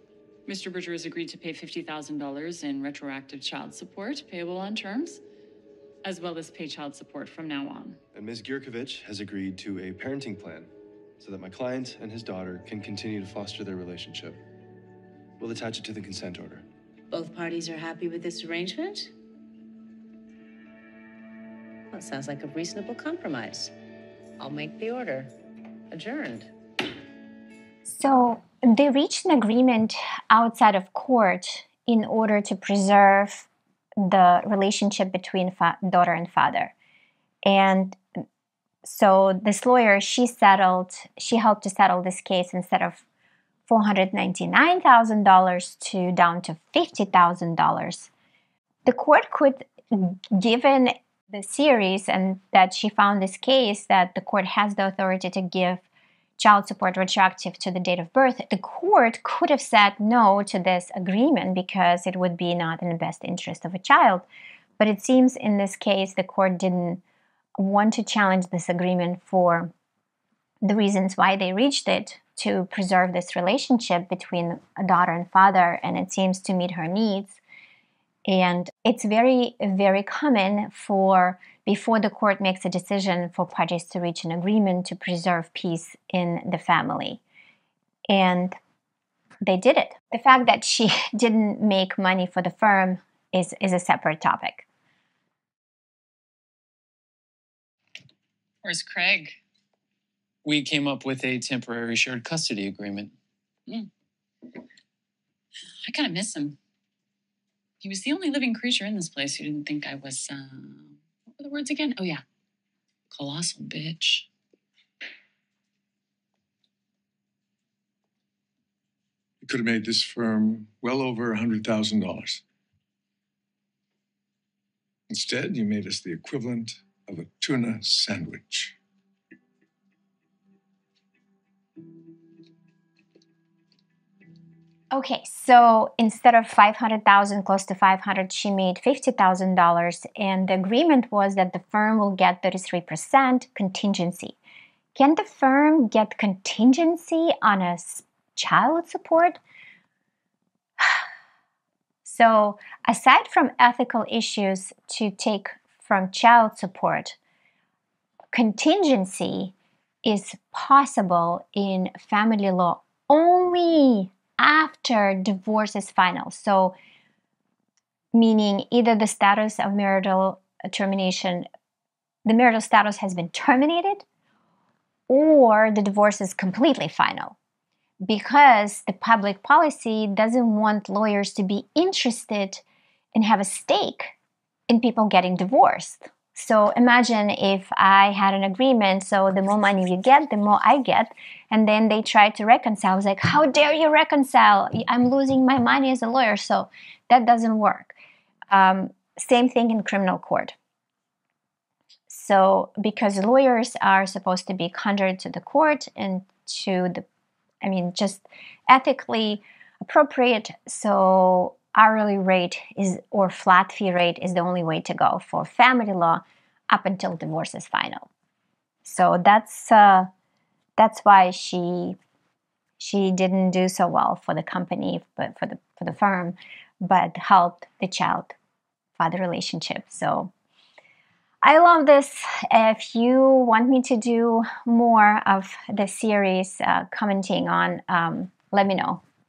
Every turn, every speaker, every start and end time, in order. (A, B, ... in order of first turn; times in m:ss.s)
0:00.4-0:05.2 A
0:06.0-0:08.0 A
0:08.1-0:14.4 B
0:15.4-0:16.6 B
0:17.1-0:19.1 C
0:21.9-0:23.7 C
0:24.4-0:25.3 C
0:25.9-0:26.5 C
0:27.8-0:33.5 D
0:34.0-0:36.7 D
0:37.4-0:38.0 D
0:38.8-0:43.0 D
0:43.7-0:48.1 D
0:48.8-0:55.8 D
0:56.4-1:04.2 D
1:04.8-1:07.0 D
1:07.6-1:09.7 D
1:10.6-1:17.4 D
1:18.2-1:27.2 D
1:28.1-1:28.5 D
1:29.4-1:34.6 D
1:38.6-1:39.4 A
1:40.4-1:43.1 E
1:45.9-1:46.6 A
1:47.8-1:52.2 A
1:53.1-1:54.3 A
1:59.4-2:02.4 F
2:05.1-2:08.8 F
2:14.9-2:24.4 D
2:25.0-2:29.4 D
2:32.0-2:37.2 D
2:38.3-2:39.5 D
2:40.0-2:46.7 D
2:48.1-2:51.4 D
2:52.2-2:54.0 D
2:55.1-2:57.4 D
2:58.0-3:04.1 D
3:04.7-3:17.9 D
3:18.5-3:20.5 D
3:22.1-3:27.0 D
3:27.6-3:38.1 D
3:38.8-3:40.1 D
3:40.8-3:42.0 D
3:42.8-3:48.3 D
3:49.0-3:50.3 D
3:51.4-3:59.0 D